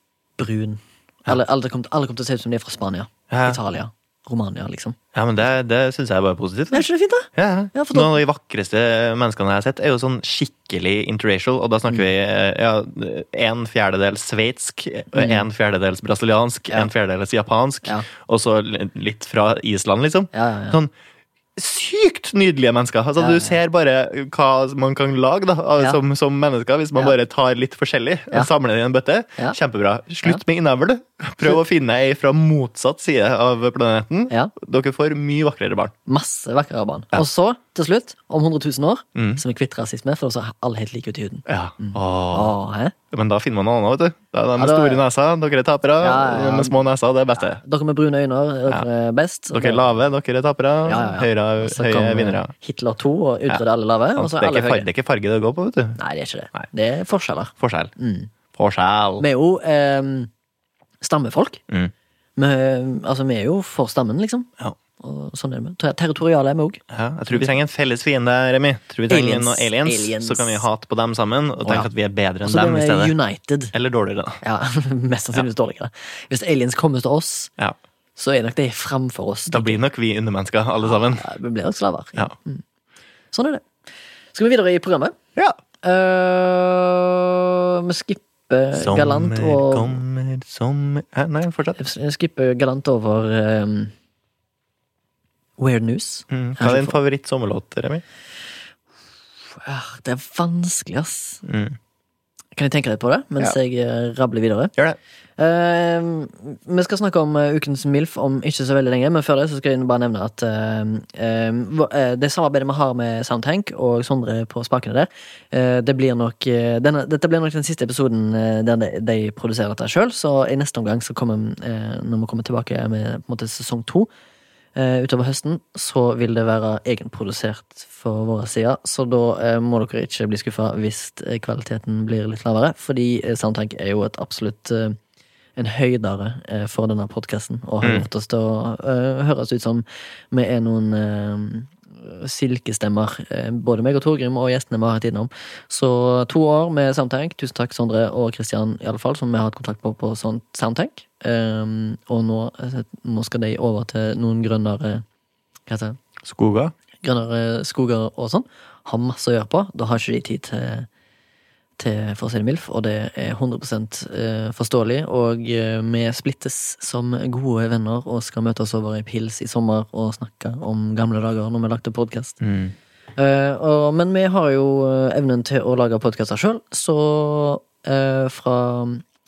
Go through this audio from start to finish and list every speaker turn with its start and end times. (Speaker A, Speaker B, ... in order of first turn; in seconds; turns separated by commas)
Speaker A: 0.4-5.0, Speaker B: 3.3-3.6, Speaker B: 5.1-20.9, Speaker A: 6.7-8.1, Speaker A: 15.1-15.4, Speaker A: 20.3-20.8, Speaker B: 21.6-35.9, Speaker A: 23.2-23.6, Speaker A: 36.0-42.9, Speaker B: 39.1-39.4, Speaker B: 41.5-42.5, Speaker B: 43.1-47.6, Speaker A: 44.6-45.0, Speaker A: 46.0-46.8, Speaker A: 47.5-49.8, Speaker B: 49.5-52.5, Speaker A: 50.9-54.9, Speaker B: 54.1-56.0, Speaker A: 56.0-58.3, Speaker B: 57.6-57.9, Speaker B: 58.5-59.2, Speaker A: 59.2-60.3, Speaker A: 61.0-61.6, Speaker A: 62.4-66.8, Speaker B: 66.9-73.2, Speaker A: 69.1-70.6, Speaker A: 71.6-71.9, Speaker A: 72.4-73.7, Speaker B: 73.7-74.4, Speaker A: 74.4-77.5, Speaker A: 78.2-79.8, Speaker B: 79.5-81.2, Speaker A: 80.8-82.6, Speaker A: 83.3-83.6, Speaker A: 84.3-85.2, Speaker A: 85.8-90.0, Speaker B: 88.7-91.8, Speaker A: 91.8-93.9, Speaker A: 95.6-97.0, Speaker B: 96.3-98.0, Speaker A: 99.6-101.4, Speaker B: 101.4-101.8, Speaker A: 102.5-104.7, Speaker A: 105.4-124.1, Speaker A: 124.8-135.0, Speaker A: 135.6-155.0, Speaker B: 137.8-138.1, Speaker A: 155.7-156.0, Speaker B: 156.2-156.7, Speaker A: 157.0-160.9, Speaker A: 161.8-172.4, Speaker B: 172.4-172.7, Speaker A: 173.2-179.0